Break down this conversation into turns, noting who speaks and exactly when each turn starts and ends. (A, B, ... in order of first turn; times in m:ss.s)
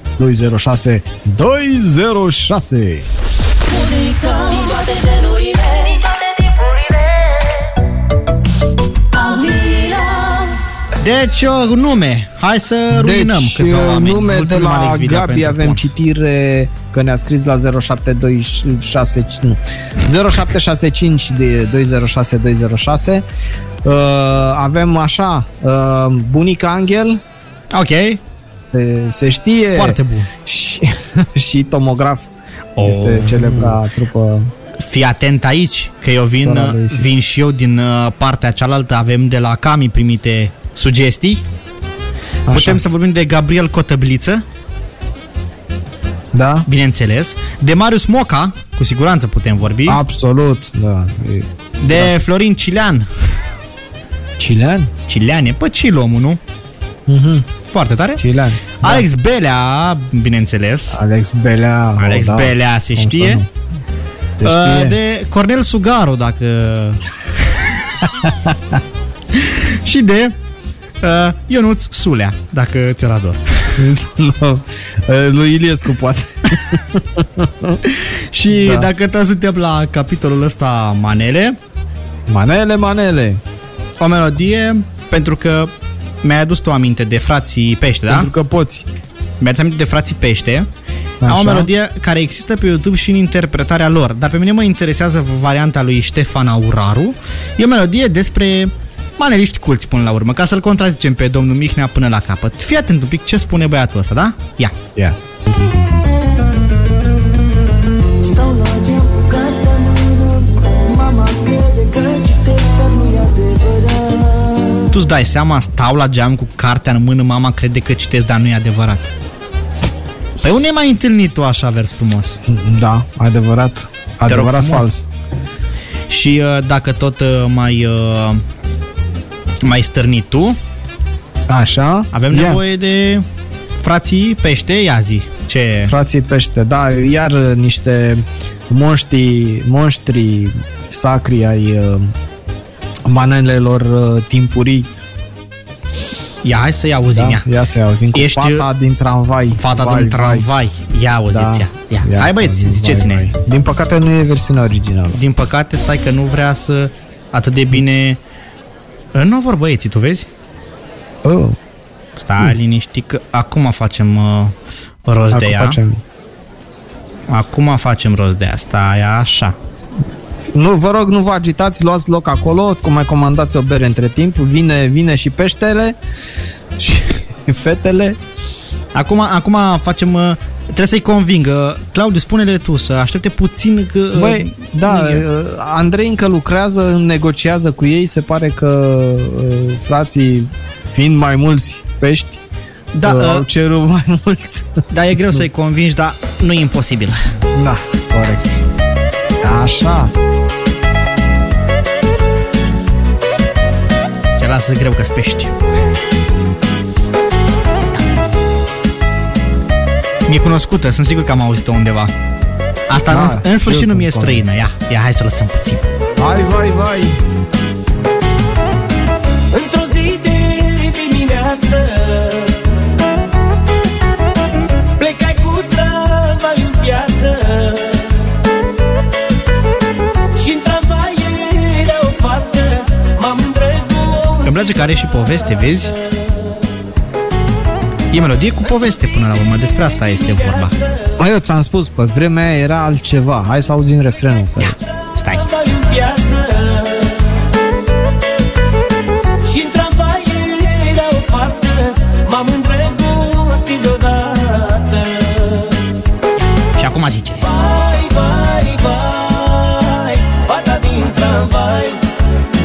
0:00.2-0:03.1 A
0:03.7-0:07.1 B
0:09.1-0:10.5 B
0:11.0-0:15.9 C
0:12.9-0:23.2 A
0:23.8-0:27.2 A
0:27.7-0:28.2 C
0:28.7-0:32.3 A
0:29.7-0:30.3 C
0:32.8-0:33.8 C
0:32.8-0:34.5 A
0:34.8-0:41.4 C
0:36.4-0:37.1 A
0:42.5-0:42.8 A
0:42.5-0:44.4 C
0:46.3-0:46.7 A
0:46.6-0:50.0 C
0:49.8-0:52.3 A
0:51.8-0:53.1 C
0:54.4-0:54.9 A
0:55.1-0:56.4 C
0:57.1-0:57.5 A
0:57.7-0:58.2 C
0:58.2-0:59.1 A
0:58.8-1:01.0 C
1:00.9-1:03.5 A
1:02.0-1:03.4 C
1:04.4-1:05.0 A
1:04.4-1:07.7 C
1:08.2-1:08.5 A
1:09.3-1:10.3 C
1:11.0-1:13.8 C
1:13.8-1:17.8 A
1:17.8-1:21.6 C
1:18.5-1:18.9 A
1:22.3-1:23.4 A
1:24.0-1:25.7 C
1:26.2-1:28.3 C
1:28.1-1:28.8 A
1:29.4-1:30.7 C
1:31.2-1:31.7 A
1:31.2-1:44.7 C
1:45.0-1:45.7 A
1:48.4-1:50.4 D
1:51.1-1:53.2 D
1:53.8-1:54.0 D
1:54.9-1:59.1 C
2:00.4-2:02.4 C
2:02.4-2:05.0 A
2:04.3-2:04.9 C
2:06.1-2:08.4 C
2:09.6-2:10.6 C
2:11.5-2:12.6 A
2:12.1-2:13.2 C
2:13.8-2:15.9 C
2:15.8-2:22.1 A
2:23.0-2:24.9 A
2:26.4-2:27.5 C
2:27.1-2:30.5 A
2:28.1-2:28.7 C
2:29.5-2:33.3 C
2:31.3-2:35.2 A
2:35.1-2:38.2 C
2:39.1-2:40.3 C
2:41.2-2:41.6 A
2:42.2-2:44.5 C
2:45.0-2:45.8 C
2:45.3-2:46.0 A
2:47.3-2:49.6 C
2:50.5-2:56.0 A
2:56.8-2:58.2 A
2:58.9-3:05.2 C
3:04.1-3:12.4 A
3:12.9-3:13.4 C
3:13.0-3:15.4 A
3:14.9-3:17.2 C
3:17.5-3:18.4 A
3:18.2-3:18.6 C
3:19.4-3:20.1 A
3:24.3-3:25.6 C
3:27.9-3:28.3 C
3:30.2-3:32.1 C
3:32.9-3:35.8 C
3:33.1-3:34.6 A
3:36.2-3:37.2 A
3:39.5-3:42.8 E
3:45.0-3:48.3 E
3:50.4-3:54.5 E
3:54.4-3:55.9 C
3:56.0-3:56.6 E
3:58.1-4:00.7 C
4:00.2-4:01.1 E
4:01.2-4:04.8 A
4:04.6-4:05.5 C
4:05.3-4:07.4 E
4:09.4-4:15.9 E
4:16.7-4:17.4 C
4:17.4-4:22.0 E